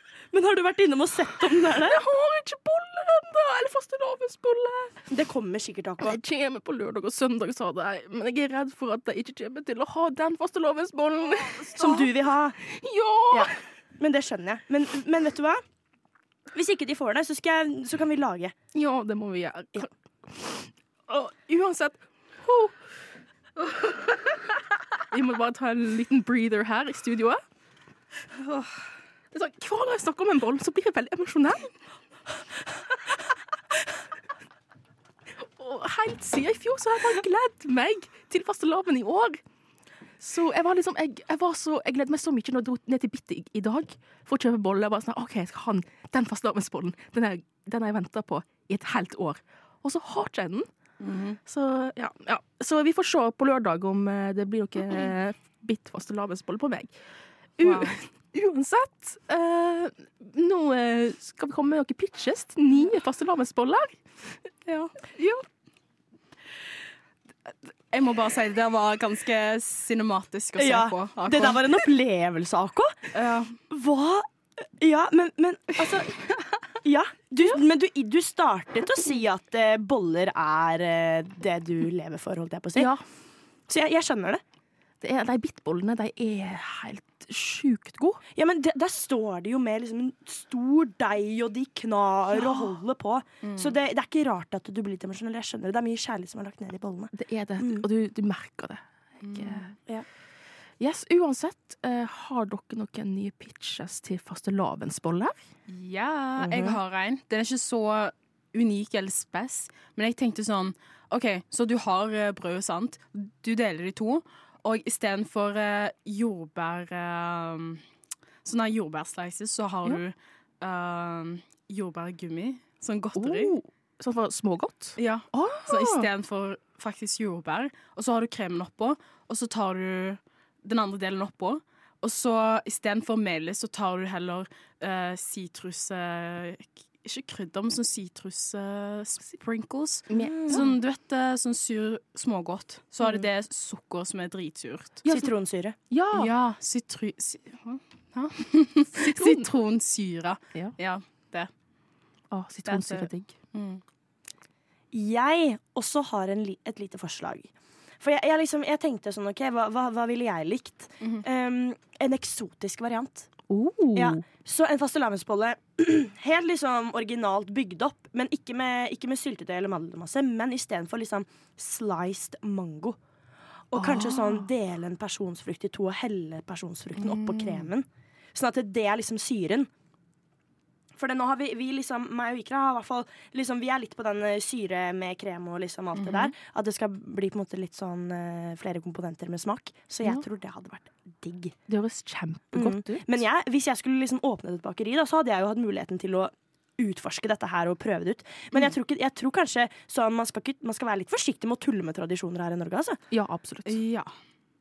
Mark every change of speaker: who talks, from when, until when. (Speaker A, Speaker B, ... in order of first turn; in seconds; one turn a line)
Speaker A: 0.3-2.0
Speaker B: 1.6-5.0
Speaker A: 5.1-6.2
Speaker B: 6.0-13.5
Speaker A: 11.7-12.6
Speaker A: 13.3-15.6
Speaker A: 16.5-18.6
Speaker B: 18.7-22.8
Speaker B: 25.1-27.4
Speaker B: 29.3-31.7
Speaker B: 35.4-39.4
Speaker B: 40.2-50.7
Speaker C: 51.0-51.4
Speaker B: 51.4-56.9
Speaker B: 57.6-64.0
Speaker C: 57.6-58.0
Speaker C: 64.7-65.4
Speaker C: 67.9-71.8
Speaker A: 70.6-73.1
Speaker C: 73.1-73.6
Speaker A: 73.7-76.2
Speaker A: 76.8-82.9
Speaker B: 82.8-83.0
Speaker A: 83.7-84.4
Speaker B: 85.0-88.2
Speaker A: 88.3-97.9
Speaker C: 93.4-93.7
Speaker B: 97.1-99.7
Speaker C: 99.2-99.7
Speaker B: 100.8-105.4
Speaker C: 105.7-117.8
Speaker A: 106.4-106.8
Speaker C: 118.4-123.6
Speaker B: 123.2-126.1
Speaker C: 125.0-145.1
Speaker B: 140.1-140.7
Speaker A: 140.2-140.7
Speaker B: 145.1-145.3
Speaker A: 145.1-145.8
Speaker B: 145.9-146.3
Speaker C: 146.1-151.5
Speaker B: 149.0-149.4
Speaker B: 152.3-153.3
Speaker C: 152.7-153.8
Speaker A: 154.9-163.3
Speaker B: 163.5-164.2
Speaker A: 163.9-173.0
Speaker A: 173.7-179.7
Speaker B: 173.7-174.5
Speaker C: 177.0-177.7
Speaker A: 180.9-191.6
Speaker C: 185.9-186.3
Speaker B: 191.7-193.2
Speaker A: 192.5-203.0
Speaker B: 203.1-203.8
Speaker C: 203.7-204.1